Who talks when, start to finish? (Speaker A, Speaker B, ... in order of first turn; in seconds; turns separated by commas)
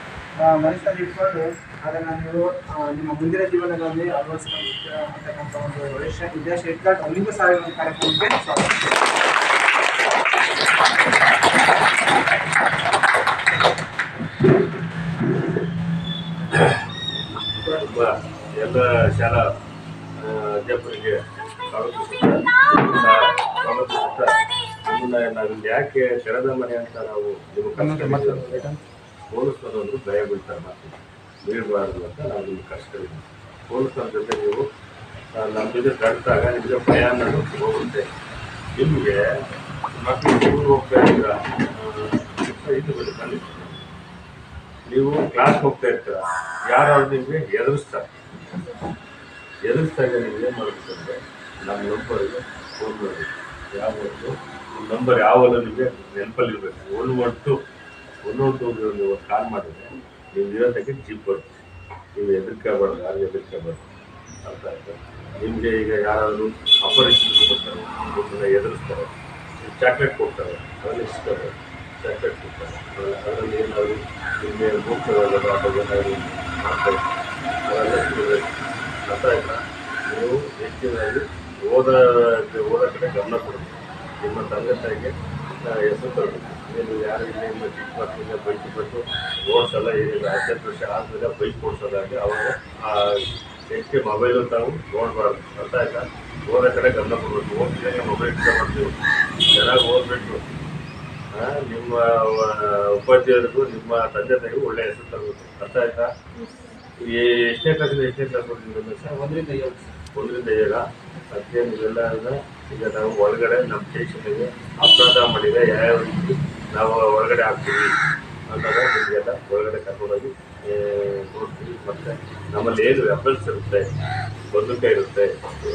Speaker A: 0.4-8.8, Speaker B: 17.6-18.1, Speaker B: 18.6-19.4, Speaker B: 20.2-21.2, Speaker B: 21.7-28.7, Speaker A: 27.8-28.8, Speaker B: 29.3-34.6, Speaker B: 35.4-38.1, Speaker B: 38.8-39.4, Speaker B: 39.9-43.9, Speaker B: 44.9-48.1, Speaker B: 49.6-57.6, Speaker B: 58.2-61.6, Speaker B: 62.1-63.9, Speaker B: 64.4-77.0, Speaker B: 77.7-85.1, Speaker B: 85.6-98.9, Speaker B: 99.5-100.4, Speaker B: 101.3-106.1, Speaker B: 107.0-109.3, Speaker A: 109.4-109.8, Speaker B: 110.1-117.9, Speaker B: 118.5-123.9, Speaker B: 124.5-125.4